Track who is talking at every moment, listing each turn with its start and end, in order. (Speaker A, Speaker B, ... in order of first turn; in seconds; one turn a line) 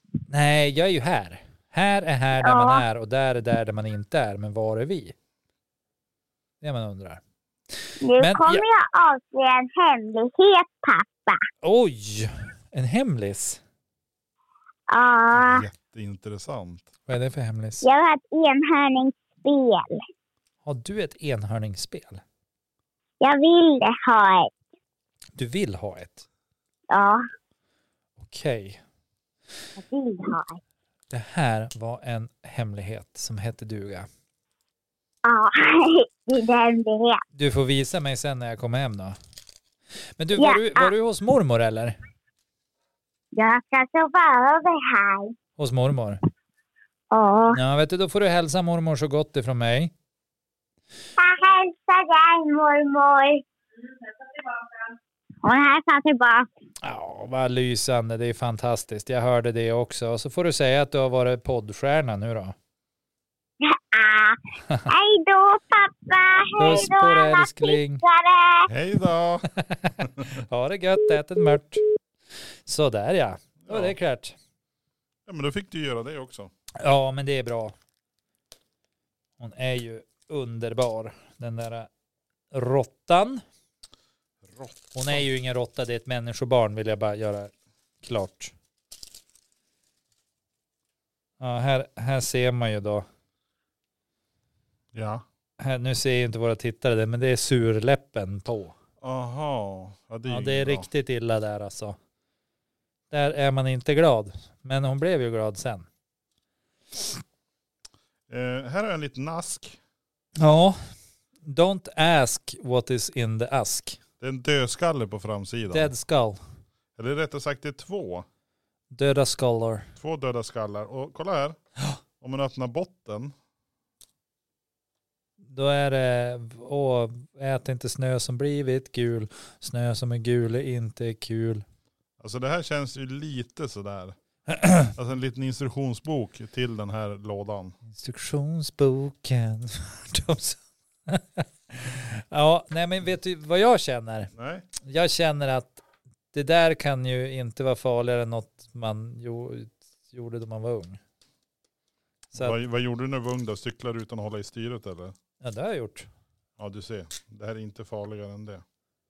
Speaker A: 0.3-5.1
Speaker B: 2.4-2.8
Speaker A: 6.6-7.2
Speaker B: 8.0-11.4
Speaker A: 8.2-8.6
Speaker A: 11.6-13.6
Speaker B: 14.9-15.6
Speaker C: 15.3-16.9
Speaker A: 17.1-17.8
Speaker B: 17.8-20.0
Speaker A: 20.6-22.2
Speaker B: 23.2-24.5
Speaker A: 25.4-26.2
Speaker B: 26.9-27.2
Speaker A: 28.2-28.8
Speaker B: 29.8-30.6
Speaker A: 31.1-34.1
Speaker B: 35.2-37.2
Speaker A: 37.3-39.2
Speaker A: 40.2-42.0
Speaker B: 40.4-40.9
Speaker B: 43.3-45.3
Speaker A: 45.6-46.2
Speaker B: 47.1-47.6
Speaker A: 47.5-49.9
Speaker B: 51.2-53.4
Speaker B: 55.4-56.5
Speaker A: 56.8-62.5
Speaker B: 63.6-68.7
Speaker A: 66.6-68.0
Speaker C: 68.7-69.5
Speaker A: 69.5-71.8
Speaker C: 70.0-70.4
Speaker A: 72.7-74.3
Speaker C: 73.6-73.9
Speaker C: 75.2-76.5
Speaker A: 76.8-77.7
Speaker A: 79.4-81.9
Speaker A: 82.5-83.4
Speaker C: 84.4-85.2
Speaker A: 84.9-88.5
Speaker A: 91.4-93.0
Speaker C: 94.9-95.2
Speaker A: 95.6-98.8
Speaker C: 99.0-100.9
Speaker A: 100.3-102.0
Speaker A: 103.1-105.9
Speaker C: 108.3-109.8
Speaker A: 110.4-110.8
Speaker A: 111.4-114.0
Speaker C: 114.2-115.9
Speaker A: 115.7-116.4
Speaker C: 117.0-118.2
Speaker A: 118.9-119.9
Speaker C: 120.0-121.6
Speaker C: 122.2-123.3
Speaker A: 125.5-131.6
Speaker C: 132.2-134.2
Speaker A: 134.5-134.9
Speaker C: 134.9-137.8
Speaker A: 137.9-151.0
Speaker C: 144.3-144.7
Speaker C: 152.3-155.2
Speaker A: 155.4-156.1
Speaker C: 156.6-158.6